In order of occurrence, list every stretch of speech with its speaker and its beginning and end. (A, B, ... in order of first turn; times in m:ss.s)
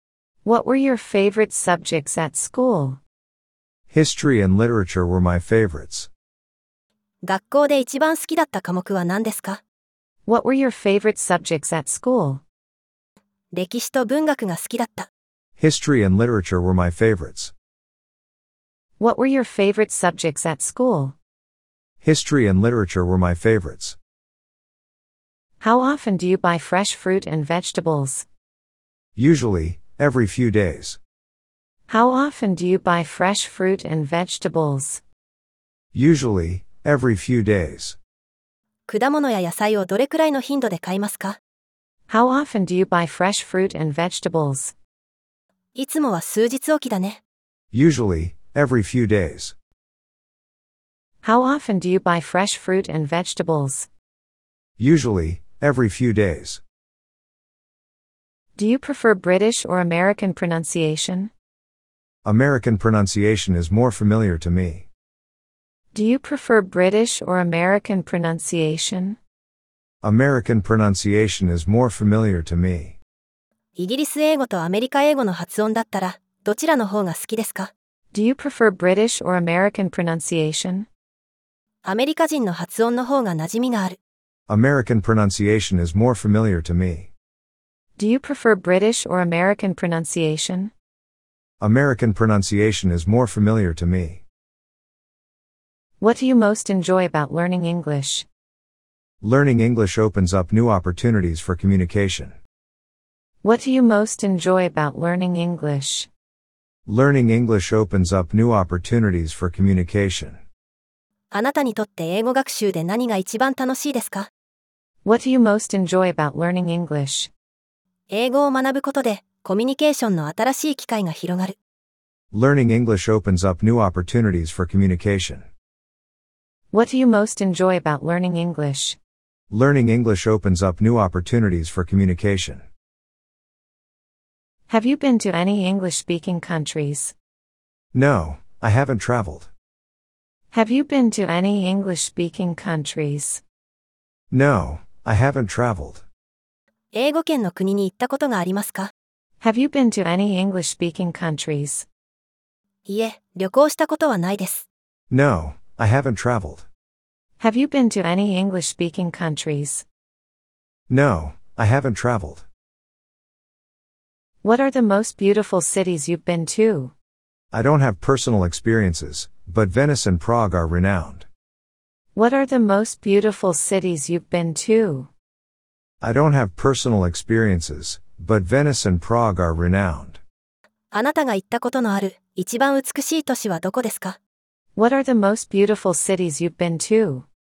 0:00.4-0:03.0 A
0:03.9-0:06.1 B
0:07.2-0:09.6 C
0:10.3-0:12.4 A
0:13.5-0:15.1 C
0:15.6-0:17.5 B
0:19.0-0:21.2 A
0:22.0-0:24.0 B
0:25.6-0:28.3 A
0:29.2-0:31.0 B
0:31.9-0:35.0 A
0:35.9-0:38.0 B
0:38.9-0:41.4 C
0:42.1-0:44.7 A
0:45.8-0:47.2 C
0:47.7-0:49.5 B
0:51.2-0:53.9 A
0:54.8-0:56.6 B
0:58.6-1:01.3 A
1:02.2-1:04.9 B
1:05.9-1:09.2 A
1:10.0-1:13.0 B
1:13.8-1:17.7 C
1:18.1-1:20.9 A
1:21.8-1:24.0 C
1:24.5-1:27.1 B
1:28.0-1:30.7 A
1:31.6-1:34.2 B
1:36.0-1:38.3 A
1:39.2-1:42.4 B
1:43.4-1:46.1 A
1:46.9-1:50.4 B
1:51.3-1:54.3 C
1:55.0-1:57.3 A
1:58.1-2:01.6 C
2:02.3-2:05.4 B
2:06.7-2:09.0 A
2:09.5-2:12.6 B
2:14.7-2:17.1 A
2:17.9-2:19.5 B
2:20.5-2:23.4 A
2:24.3-2:26.0 B
2:26.9-2:28.9 C
2:29.4-2:31.9 A
2:32.9-2:34.7 C
2:35.1-2:36.7 B
2:37.4-2:39.8 A
2:40.9-2:42.4 B
2:44.4-2:46.9 A
2:47.5-2:51.3 B
2:52.2-2:55.1 A
2:56.0-3:00.2 B
3:00.9-3:04.2 C
3:04.8-3:07.3 A